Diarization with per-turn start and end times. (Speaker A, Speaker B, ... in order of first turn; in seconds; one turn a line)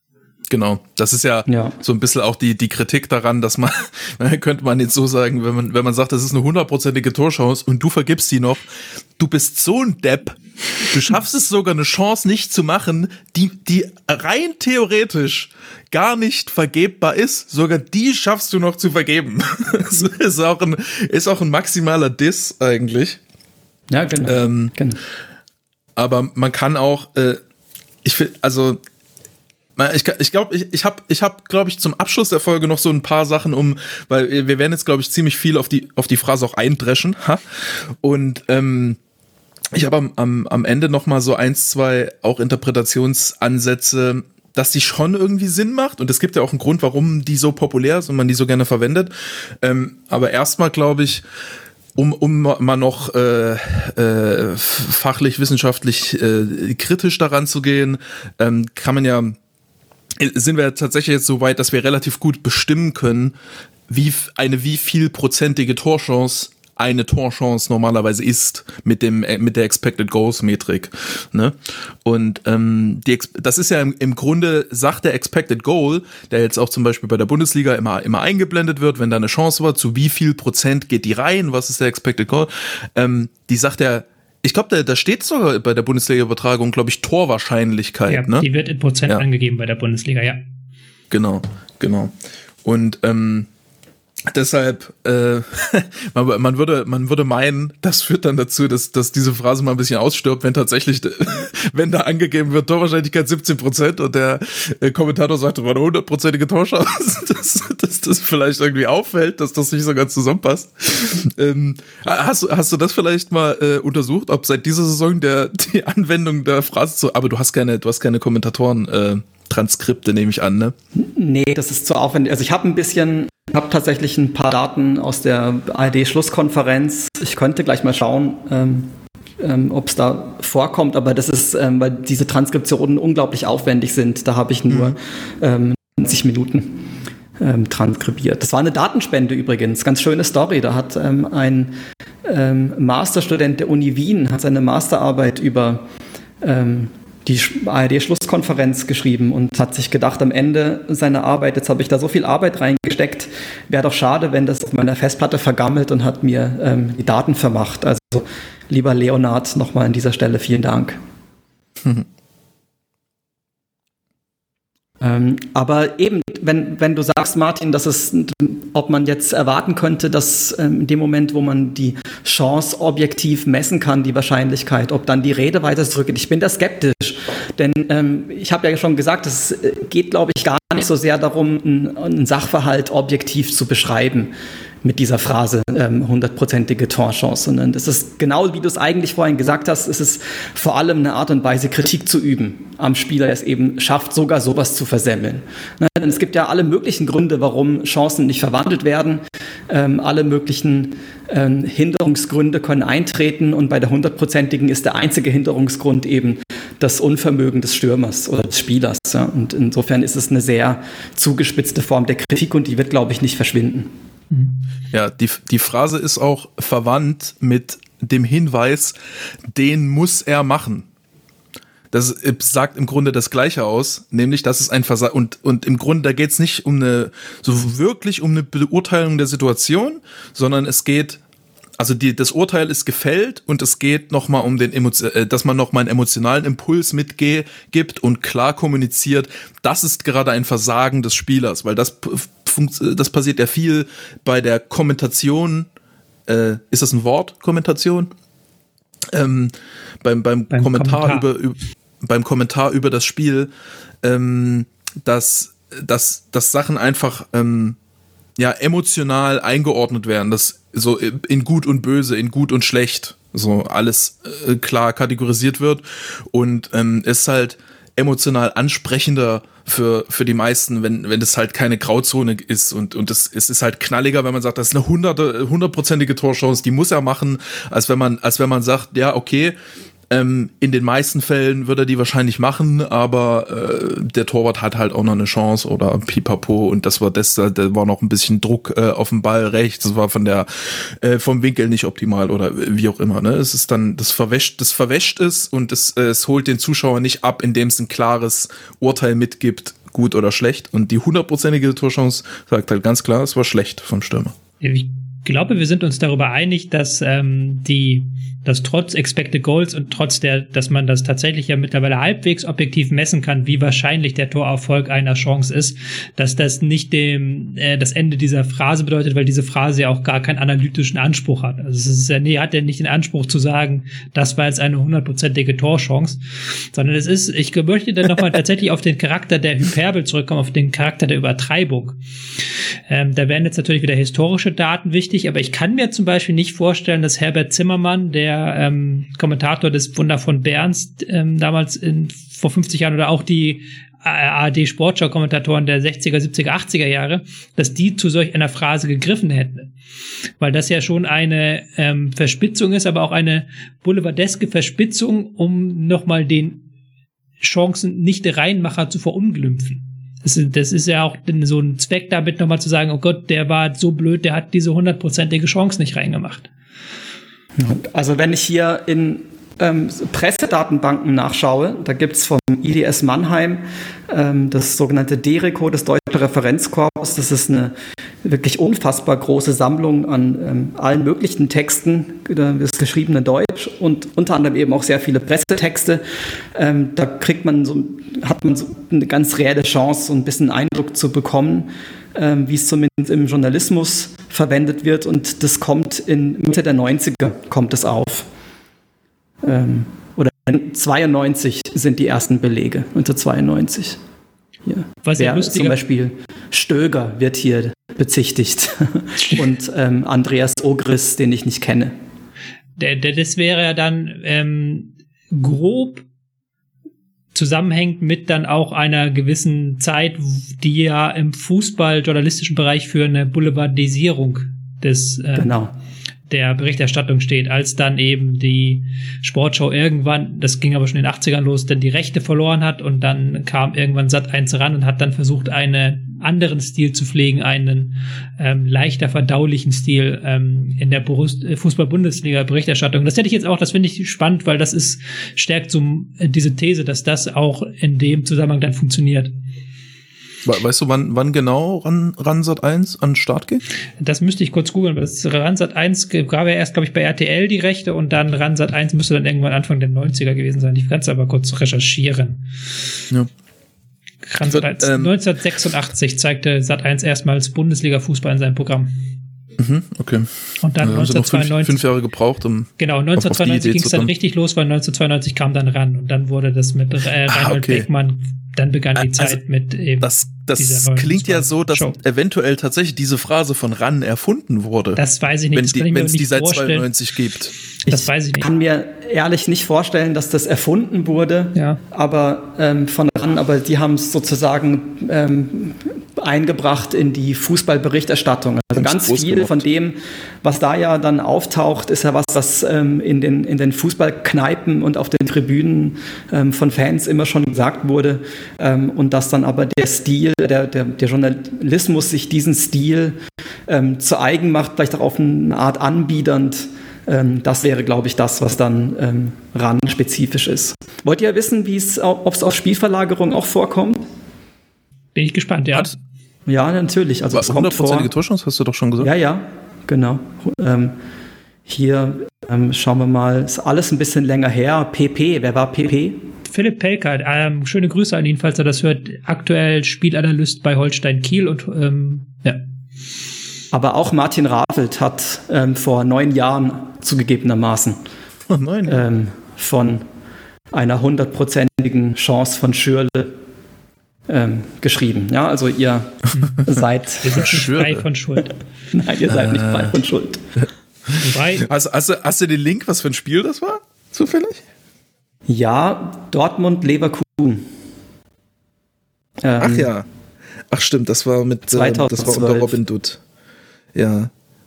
Speaker A: 0.5-23.2
Speaker B: 1.5-1.7
Speaker B: 23.9-25.0
Speaker A: 24.2-24.7
Speaker A: 25.9-27.4
Speaker A: 28.0-28.8
Speaker A: 29.8-37.4
Speaker A: 38.0-39.0
Speaker A: 39.7-51.2
Speaker A: 52.0-59.4
Speaker A: 60.2-63.3
Speaker A: 63.9-88.5
Speaker C: 88.1-90.4
Speaker A: 91.1-92.1
Speaker A: 92.6-93.5
Speaker A: 94.3-120.7
Speaker B: 121.0-128.9
Speaker B: 129.4-136.8
Speaker A: 134.7-134.9
Speaker B: 137.4-141.7
Speaker B: 142.2-145.8
Speaker B: 146.4-161.0
Speaker B: 165.0-184.3
Speaker B: 184.8-213.9
Speaker C: 214.3-214.6
Speaker A: 214.9-218.9
Speaker A: 219.5-220.9
Speaker A: 221.9-231.2
Speaker A: 231.8-245.7
Speaker A: 246.3-248.1
Speaker A: 249.1-253.5
Speaker C: 250.5-251.2
Speaker A: 254.0-257.8
Speaker A: 258.4-279.6
Speaker A: 280.1-304.3
Speaker C: 304.6-326.2
Speaker C: 326.7-332.0
Speaker C: 332.9-349.7
Speaker C: 350.4-356.6
Speaker C: 357.4-366.5
Speaker B: 367.6-386.0
Speaker B: 386.5-398.3
Speaker B: 399.4-404.0
Speaker B: 404.6-411.9
Speaker C: 405.0-405.8
Speaker C: 412.8-416.0
Speaker C: 417.3-425.5
Speaker B: 425.3-425.7
Speaker C: 426.3-449.3
Speaker A: 450.4-453.6
Speaker C: 454.0-462.4
Speaker C: 464.3-468.9
Speaker A: 464.4-465.1
Speaker A: 469.6-470.3
Speaker C: 470.6-471.8
Speaker A: 470.8-474.1
Speaker C: 472.8-482.0
Speaker A: 477.3-477.9
Speaker A: 478.9-479.4
Speaker A: 480.0-485.0
Speaker C: 484.9-486.9
Speaker A: 485.5-487.5
Speaker B: 487.9-513.2
Speaker C: 487.9-488.5
Speaker C: 491.5-491.8
Speaker A: 498.7-499.7
Speaker B: 513.7-524.0
Speaker C: 525.1-525.9
Speaker B: 526.5-528.1
Speaker A: 527.3-529.1
Speaker B: 529.0-530.9
Speaker B: 531.7-536.2
Speaker C: 536.5-542.6
Speaker B: 543.7-548.0
Speaker A: 548.5-549.0
Speaker B: 548.9-550.0
Speaker B: 550.7-553.3
Speaker B: 554.3-557.5
Speaker C: 557.2-558.5
Speaker A: 557.4-558.0
Speaker B: 558.9-560.4
Speaker A: 559.3-560.0
Speaker A: 561.1-564.6
Speaker C: 561.2-561.6
Speaker B: 565.5-567.6
Speaker B: 569.4-569.9
Speaker A: 569.6-570.1
Speaker A: 570.7-573.2
Speaker B: 571.7-572.8
Speaker A: 573.9-574.3